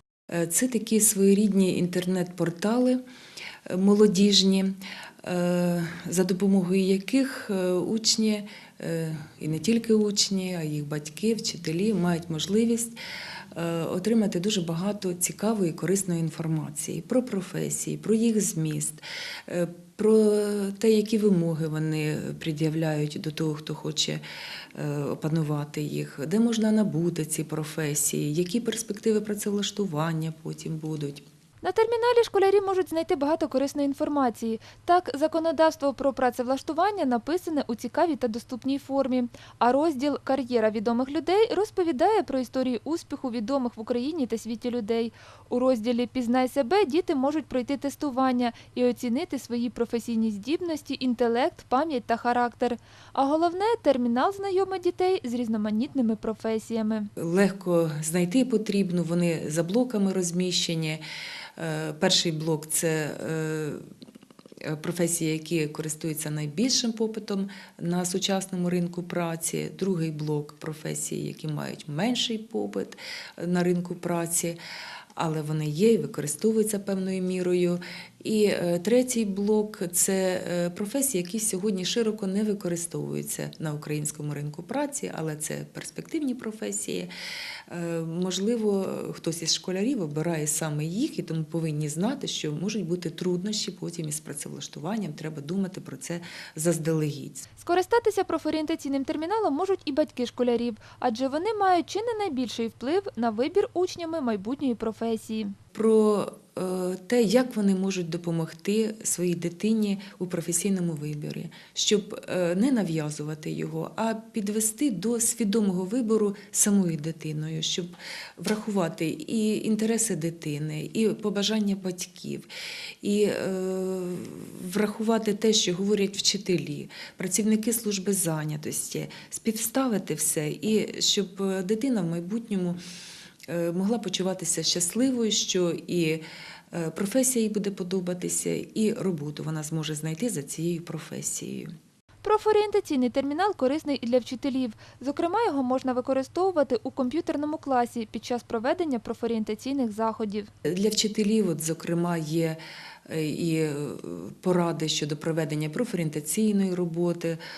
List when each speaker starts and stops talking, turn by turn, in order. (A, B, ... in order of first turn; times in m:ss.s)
0:00.3-0:03.0 A
0:03.7-0:13.0 A
0:13.5-0:24.2 A
0:24.7-0:31.2 A
0:31.6-0:57.1 B
0:57.2-1:01.0 A
1:01.6-1:03.8 A
1:04.6-1:14.6 A
1:15.2-1:27.1 A
1:27.7-1:37.5 A
1:37.6-1:45.5 B
1:45.7-2:02.5 A
2:03.0-2:12.8 A
2:13.5-2:21.7 A
2:22.2-2:30.5 B
2:30.6-2:37.4 A